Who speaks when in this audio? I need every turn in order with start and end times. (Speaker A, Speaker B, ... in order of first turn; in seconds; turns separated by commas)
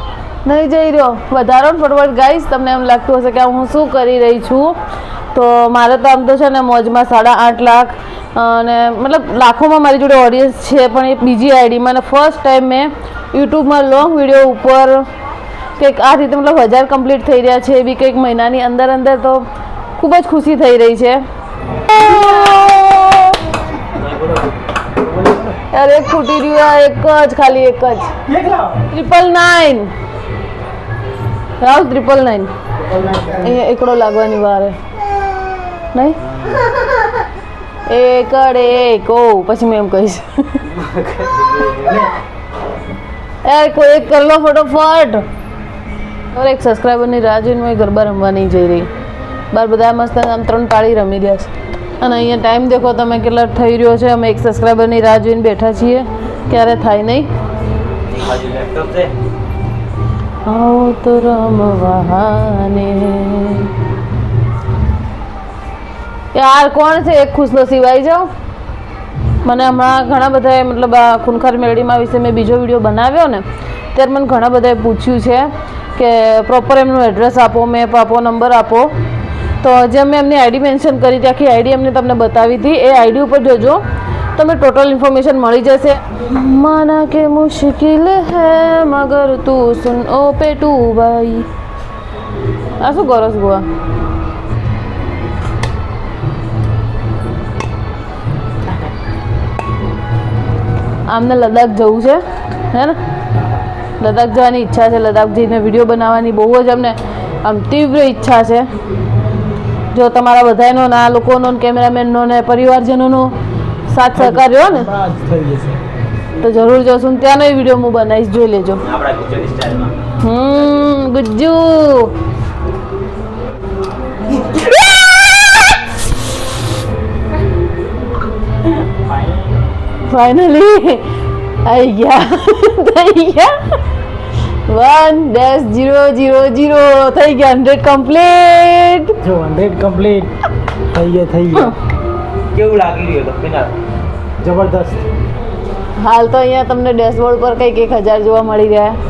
Speaker A: 0.5-4.8, Speaker A: 5.3-15.1, Speaker A: 15.8-19.4, Speaker A: 20.0-21.2, Speaker A: 21.9-23.4, Speaker B: 24.0-24.5, Speaker C: 25.2-25.6, Speaker A: 25.7-28.2, Speaker C: 28.3-28.8, Speaker A: 28.9-29.9, Speaker A: 31.6-32.5, Speaker C: 33.0-33.3, Speaker A: 33.2-34.8, Speaker A: 35.9-36.2, Speaker A: 37.9-40.7, Speaker B: 40.7-42.1, Speaker A: 43.4-45.2, Speaker A: 46.3-48.9, Speaker A: 49.5-57.3, Speaker B: 58.1-59.1, Speaker A: 60.5-63.7, Speaker A: 66.3-68.3, Speaker A: 69.4-78.9, Speaker A: 79.6-83.8, Speaker A: 84.4-91.5, Speaker A: 92.8-93.7, Speaker A: 101.1-103.0, Speaker A: 104.0-108.7, Speaker A: 109.9-113.3, Speaker A: 113.9-114.9, Speaker C: 114.1-115.8, Speaker A: 116.4-118.8, Speaker B: 118.8-120.0, Speaker A: 120.2-122.2, Speaker C: 128.9-129.2, Speaker A: 130.1-131.1, Speaker A: 131.6-133.8, Speaker A: 134.7-139.2, Speaker C: 139.2-141.8, Speaker B: 142.5-143.7, Speaker C: 144.4-145.1, Speaker A: 146.0-149.0